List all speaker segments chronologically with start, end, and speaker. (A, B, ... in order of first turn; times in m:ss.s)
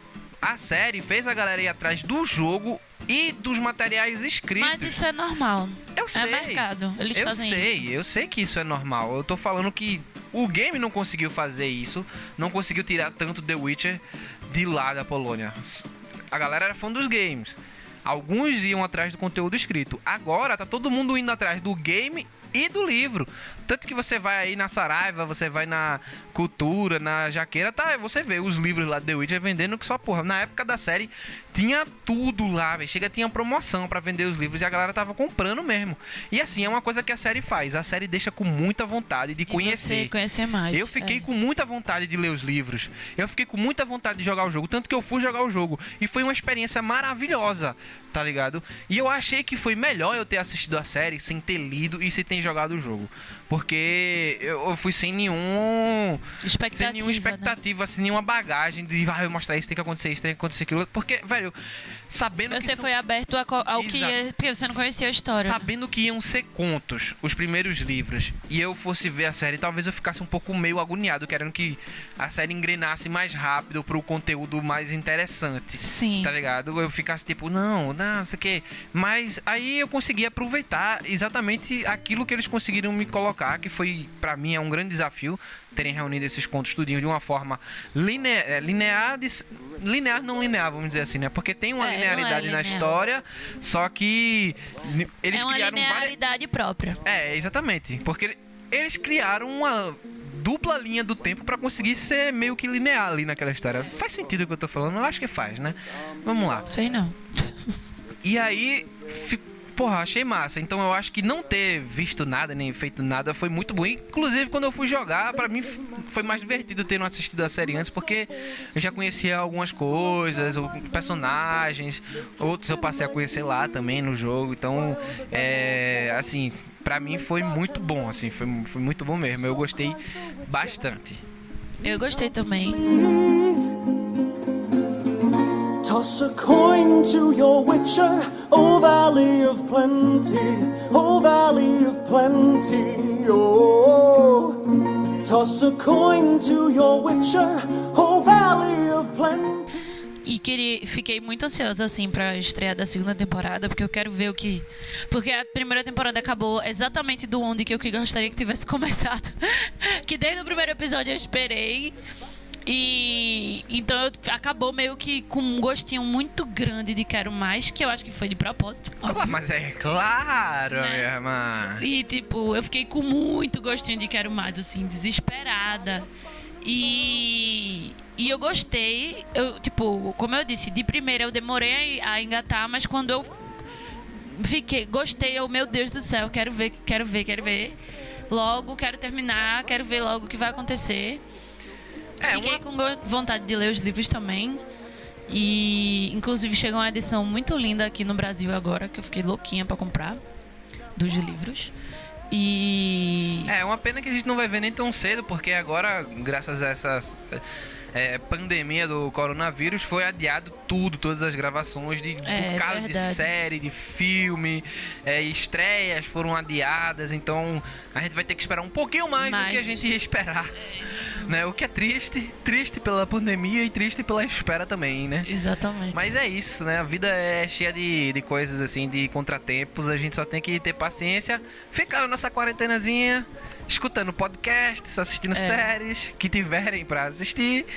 0:00.4-0:05.0 A
0:04.6-0:07.9 B
0:06.0-0:40.1 A
0:39.5-0:41.3 B
0:40.7-1:01.6 A
0:56.4-0:57.6 B
1:02.1-1:02.9 A
1:02.5-1:05.7 B
1:03.7-1:36.2 A
1:15.8-1:16.3 B
1:31.8-1:33.0 B
1:35.3-1:37.0 B
1:37.0-1:46.7 A
1:46.7-1:47.6 B
1:48.2-2:11.2 A
2:05.1-2:06.0 C
2:11.8-2:12.9 B
2:11.9-2:13.9 C
2:15.8-2:29.8 C
2:30.2-2:42.0 B
2:42.7-2:49.4 B
2:49.0-2:51.8 A
2:50.8-2:51.1 B
2:51.8-2:56.0 B
2:56.6-3:03.5 B
3:04.1-3:07.8 B
3:08.3-3:11.2 B
3:12.2-3:14.6 B
3:12.2-3:12.6 A
3:15.3-3:20.2 B
3:21.0-3:21.7 B
3:22.3-3:23.5 B
3:23.5-3:45.3 A
3:32.2-3:33.3 B
3:39.2-3:39.8 B
3:40.8-3:41.3 B
3:45.2-3:46.0 B
3:45.9-3:57.7 A
3:55.3-3:55.7 B